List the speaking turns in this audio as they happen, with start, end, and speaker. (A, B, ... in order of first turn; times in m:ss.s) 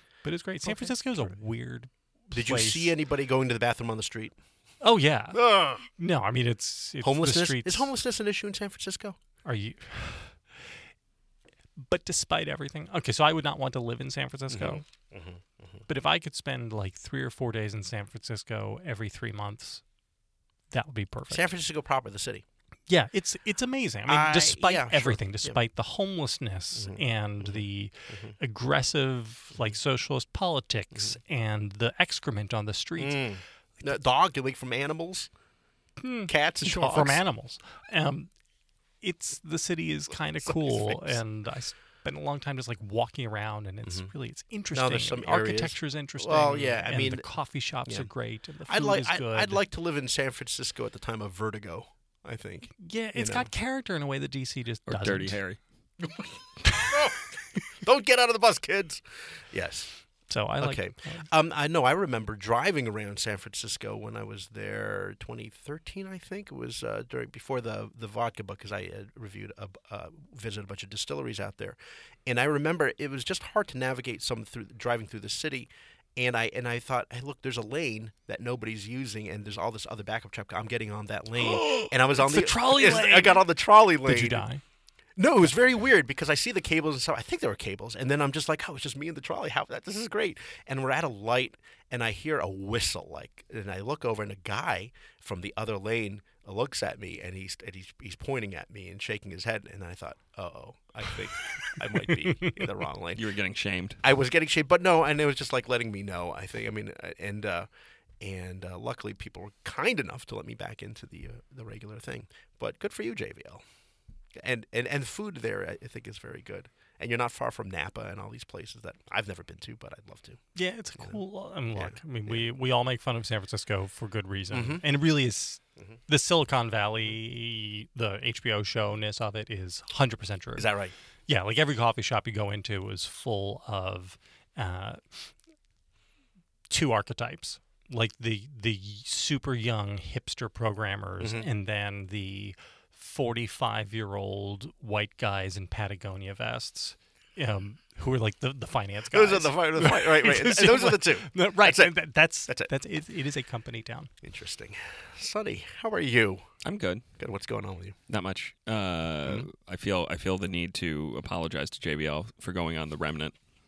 0:00.2-0:02.9 A
0:00.6-0:01.4 B
0:02.3-0:04.3 B
0:04.8-0:07.9 A
0:05.3-0:05.8 B
0:07.0-0:09.2 B
0:09.4-0:10.4 A
0:11.8-0:14.8 A
0:14.5-0:15.8 B
0:15.9-0:19.8 A
0:20.7-0:21.4 A
0:21.3-0:22.4 B
0:22.9-0:33.3 A
0:24.0-0:25.6 B
0:26.8-0:28.3 B
0:33.0-0:35.3 B
0:36.0-0:38.3 A
0:36.3-0:37.2 B
0:39.0-0:49.6 A
0:40.4-0:41.2 B
0:43.8-0:44.1 B
0:44.7-0:47.3 B
0:48.7-0:53.5 B
0:52.8-0:55.4 A
0:54.9-0:55.6 C
0:56.0-0:59.9 B
1:00.3-1:01.2 A
1:00.6-1:24.4 B
1:21.4-1:23.5 A
1:24.0-1:24.6 A
1:25.2-1:43.3 B
1:43.2-1:44.0 C
1:44.0-1:47.7 B
1:48.2-1:53.6 B
1:54.3-2:00.4 B
2:00.5-2:10.7 A
2:01.8-2:02.4 B
2:04.5-2:04.8 B
2:10.6-2:10.9 B
2:11.3-2:15.3 A
2:16.7-2:34.1 A
2:21.2-2:21.5 B
2:29.1-2:32.0 B
2:34.2-2:36.5 B
2:36.6-2:37.0 C
2:37.2-2:38.0 B
2:38.1-2:43.3 C